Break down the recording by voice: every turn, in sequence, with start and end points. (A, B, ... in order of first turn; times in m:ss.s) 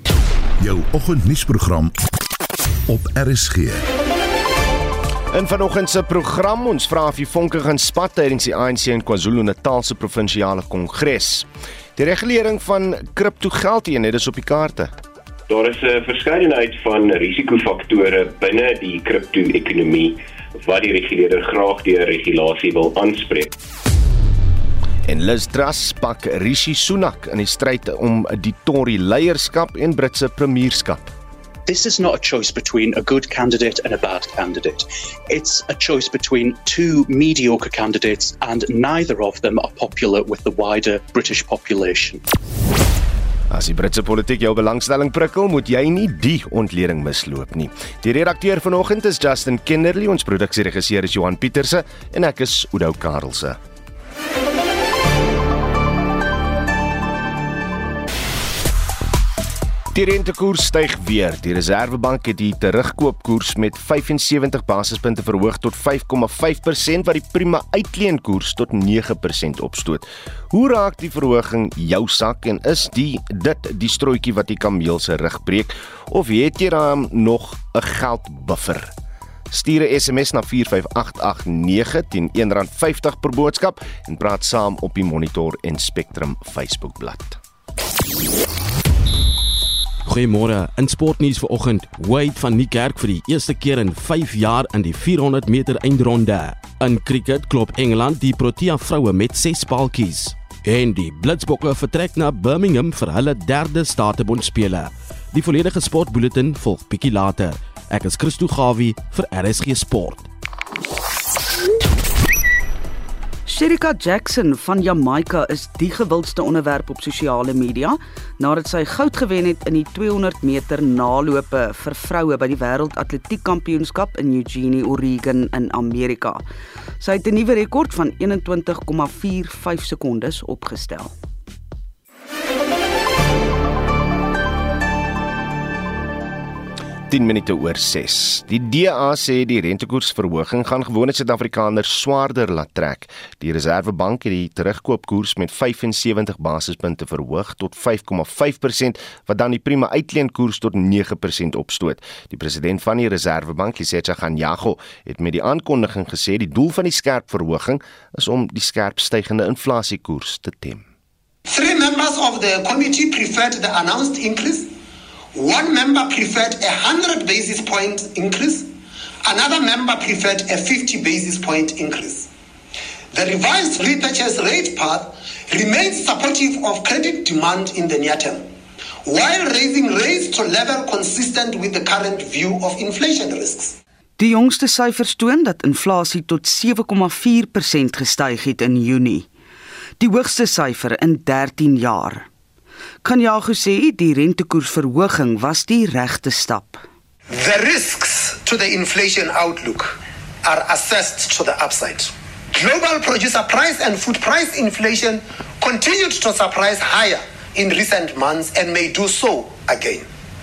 0:00.6-0:01.9 A
0:02.9-0:03.8 A
0:05.3-0:15.0 B
0:15.5-0:23.5 C
0:25.0-0:31.1 B
0:31.6-0:42.2 D
0:43.5-0:53.6 B
0:59.9-1:18.9 B
1:19.5-1:27.4 B
1:30.0-1:50.3 E
1:53.4-2:06.4 F
2:07.0-2:11.1 F
2:17.1-2:40.8 B
2:41.4-2:44.7 G
2:45.3-2:48.7 G
2:49.2-2:52.3 G
2:53.1-2:58.4 G
2:59.0-3:03.7 G
3:04.2-3:09.3 F
3:10.0-3:12.3 F
3:13.0-3:16.8 F
3:17.3-3:30.1 G